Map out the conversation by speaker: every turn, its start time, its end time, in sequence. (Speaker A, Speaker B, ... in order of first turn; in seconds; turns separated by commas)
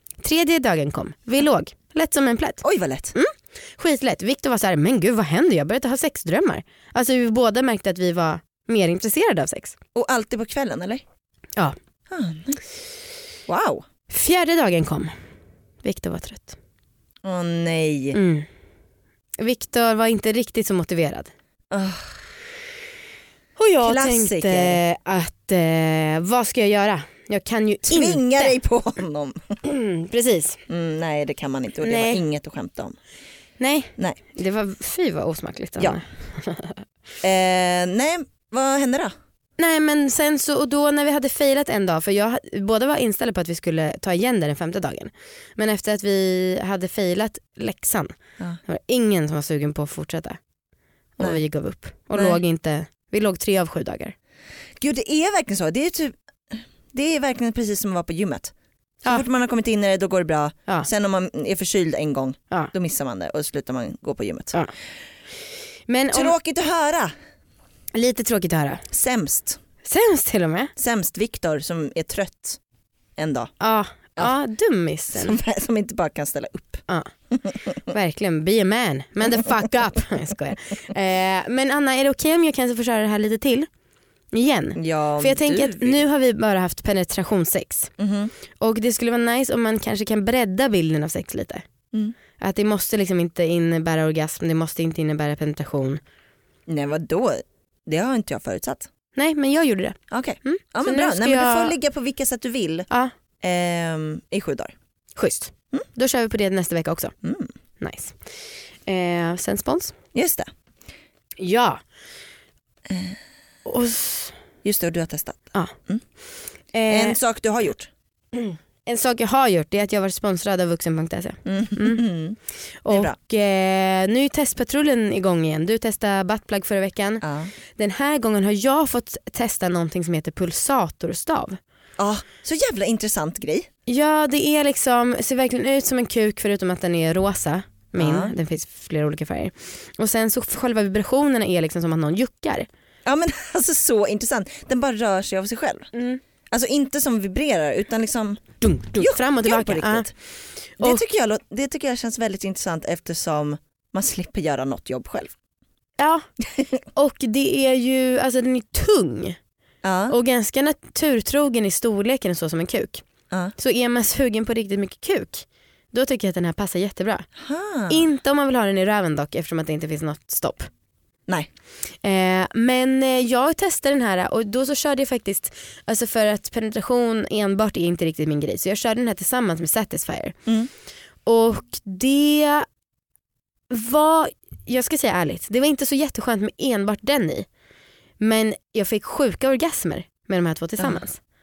Speaker A: 0.2-9.8, Speaker B: 2.6-3.1, Speaker B: 9.9-11.0, Speaker B: 12.1-12.6, Speaker B: 13.5-13.8, Speaker A: 14.1-15.1, Speaker A: 15.8-16.6, Speaker B: 17.2-18.2, Speaker A: 18.1-18.5, Speaker A: 19.4-21.3, Speaker B: 21.7-22.1, Speaker A: 23.6-28.6, Speaker B: 23.8-24.8, Speaker B: 27.9-29.6, Speaker A: 29.6-30.6, Speaker B: 30.7-33.0, Speaker A: 31.8-32.2, Speaker A: 33.6-36.8, Speaker B: 37.2-39.1, Speaker A: 39.6-50.4, Speaker A: 51.2-54.1, Speaker B: 52.1-52.4, Speaker B: 54.8-58.5, Speaker B: 59.1-64.6, Speaker A: 65.9-66.4, Speaker B: 66.1-67.1, Speaker A: 67.9-68.8, Speaker B: 68.9-69.6, Speaker A: 69.8-70.7, Speaker B: 70.8-72.6, Speaker B: 73.2-73.5, Speaker A: 73.6-75.4, Speaker B: 75.2-76.8, Speaker A: 77.9-83.7, Speaker A: 84.3-87.9, Speaker B: 84.8-86.0, Speaker B: 88.0-88.3, Speaker A: 88.6-91.7, Speaker A: 92.4-96.0, Speaker B: 96.7-98.9, Speaker A: 99.2-101.8, Speaker B: 100.1-102.9, Speaker B: 103.4-104.7, Speaker A: 105.2-107.1, Speaker B: 107.2-107.5, Speaker A: 107.8-108.2, Speaker A: 108.9-109.9, Speaker B: 110.1-110.5, Speaker A: 111.4-111.8, Speaker B: 112.9-113.2, Speaker A: 113.7-114.4, Speaker B: 114.6-116.0, Speaker A: 116.7-117.2, Speaker B: 116.9-117.9, Speaker A: 118.3-122.0, Speaker B: 121.5-122.4, Speaker A: 122.8-127.2, Speaker B: 122.9-123.2, Speaker B: 127.2-127.5, Speaker A: 127.8-131.6, Speaker B: 132.0-133.7, Speaker A: 133.9-142.7, Speaker B: 138.0-138.3, Speaker B: 143.1-145.9, Speaker A: 145.9-146.2, Speaker B: 146.5-150.1, Speaker A: 148.6-150.1, Speaker B: 150.8-155.3, Speaker A: 156.0-156.2, Speaker A: 156.9-159.4, Speaker B: 159.8-160.2, Speaker A: 160.1-163.0, Speaker A: 163.6-167.3, Speaker B: 167.4-168.1, Speaker A: 167.9-170.7, Speaker A: 172.0-180.4, Speaker A: 181.3-182.7, Speaker A: 183.7-187.5, Speaker A: 188.2-191.2